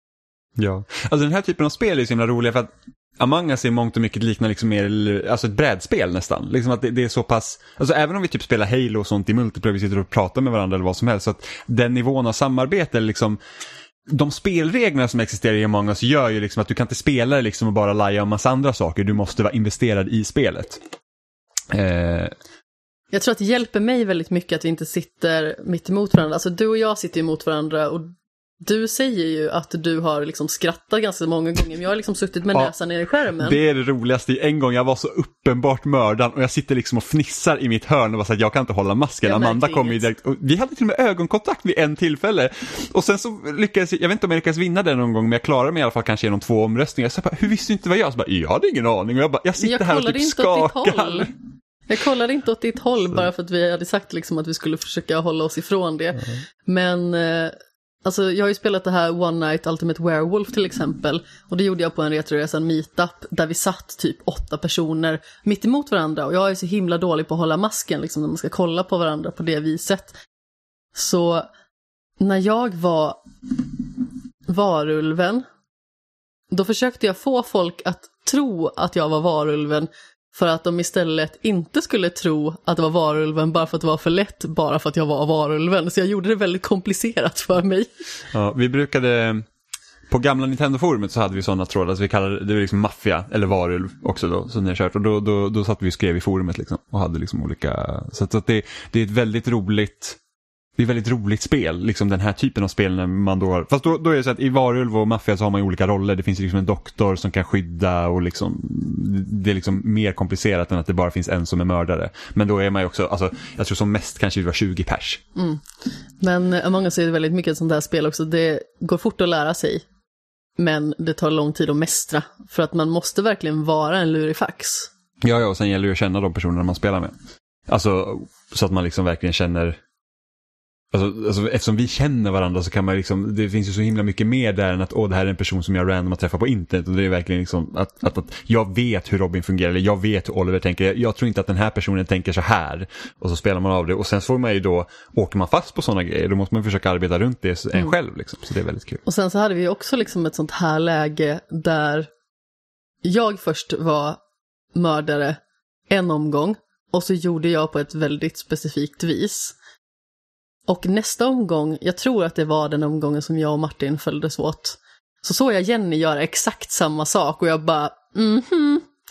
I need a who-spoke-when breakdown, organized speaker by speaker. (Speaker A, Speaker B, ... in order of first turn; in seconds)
Speaker A: 0.6-13.4, 14.1-20.8, 21.7-22.4, 33.4-51.3, 88.3-89.5, 90.1-100.2, 100.8-115.2, 125.2-127.1, 127.7-129.8, 130.9-149.0
Speaker B: 23.1-33.6, 39.2-40.0, 49.6-51.3, 51.9-70.2, 71.0-71.5, 72.2-73.9, 74.5-75.5, 76.5-87.9, 115.4-119.8, 120.6-124.9, 149.1-152.1, 153.0-154.2, 154.8-155.4, 155.9-159.6, 160.7-168.9